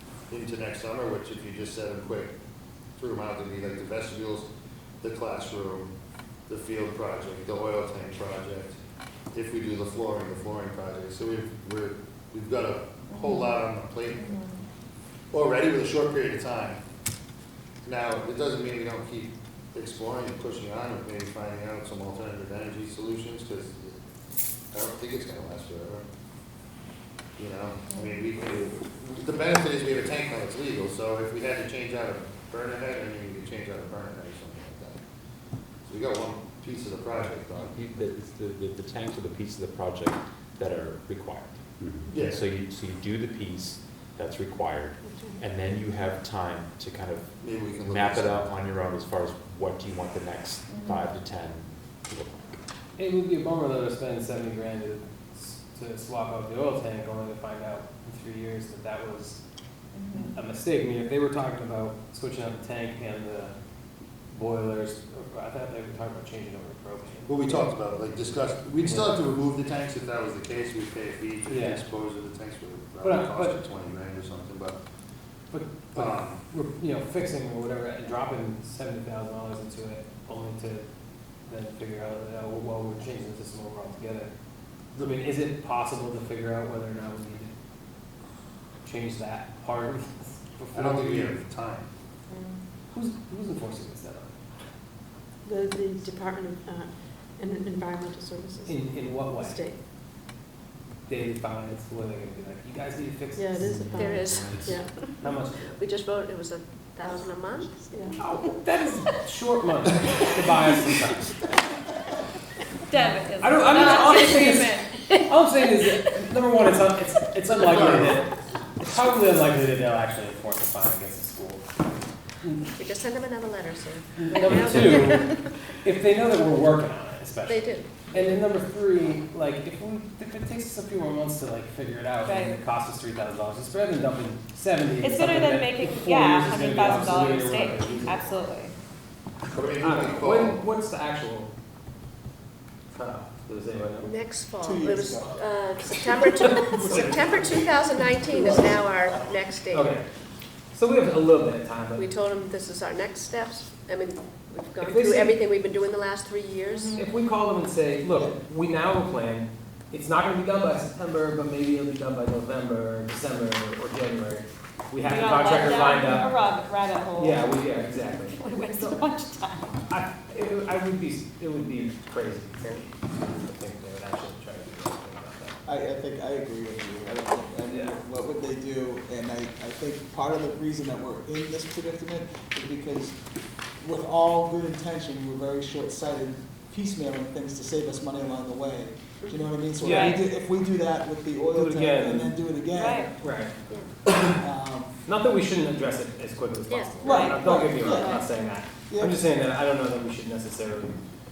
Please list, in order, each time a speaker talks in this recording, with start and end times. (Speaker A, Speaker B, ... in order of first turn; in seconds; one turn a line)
Speaker A: 0.3-2.3
Speaker A: 3.0-4.5
Speaker A: 5.0-5.9
Speaker A: 6.5-8.8
Speaker A: 9.3-14.4
Speaker B: 13.1-13.5
Speaker B: 14.1-14.6
Speaker A: 15.3-16.8
Speaker A: 17.8-24.0
Speaker A: 24.7-26.0
Speaker A: 27.4-35.0
Speaker A: 35.9-37.7
Speaker C: 37.5-52.4
Speaker A: 42.1-42.4
Speaker A: 47.4-48.5
Speaker B: 50.7-51.0
Speaker D: 53.0-59.4
Speaker B: 59.9-60.3
Speaker D: 60.1-63.5
Speaker D: 64.3-67.7
Speaker A: 67.3-74.8
Speaker D: 68.8-69.2
Speaker D: 71.5-71.8
Speaker D: 73.0-73.5
Speaker D: 75.5-80.8
Speaker A: 75.9-76.4
Speaker D: 81.5-84.3
Speaker D: 84.9-87.5
Speaker D: 88.8-91.3
Speaker A: 90.7-91.9
Speaker B: 92.3-92.6
Speaker D: 92.9-94.3
Speaker E: 95.5-98.7
Speaker D: 98.6-99.6
Speaker D: 101.1-103.7
Speaker C: 103.6-104.8
Speaker F: 103.9-108.4
Speaker D: 105.2-105.7
Speaker D: 108.2-111.4
Speaker B: 112.9-115.0
Speaker D: 113.4-121.6
Speaker F: 113.7-114.1
Speaker A: 117.6-118.2
Speaker D: 122.4-122.7
Speaker F: 122.8-125.4
Speaker D: 124.1-138.4
Speaker F: 127.5-128.1
Speaker B: 132.2-132.6
Speaker B: 135.0-138.7
Speaker A: 139.5-140.6
Speaker D: 139.8-141.5
Speaker D: 142.9-144.2
Speaker F: 144.0-149.9
Speaker G: 144.6-145.4
Speaker D: 146.2-147.6
Speaker G: 146.7-147.6
Speaker G: 148.3-148.8
Speaker D: 149.7-150.0
Speaker D: 150.7-152.1
Speaker F: 151.9-157.0
Speaker D: 154.8-155.4
Speaker B: 156.7-157.0
Speaker D: 156.9-166.3
Speaker B: 165.0-167.5
Speaker D: 167.2-168.4
Speaker B: 168.3-169.8
Speaker D: 169.8-175.6
Speaker G: 175.7-193.4
Speaker D: 177.7-178.0
Speaker D: 189.8-190.2
Speaker D: 191.5-192.3
Speaker B: 192.7-193.1
Speaker D: 193.2-193.5
Speaker G: 194.3-194.9
Speaker D: 195.0-201.0
Speaker F: 196.7-197.0
Speaker G: 197.0-198.2
Speaker B: 197.1-198.3
Speaker G: 198.9-199.2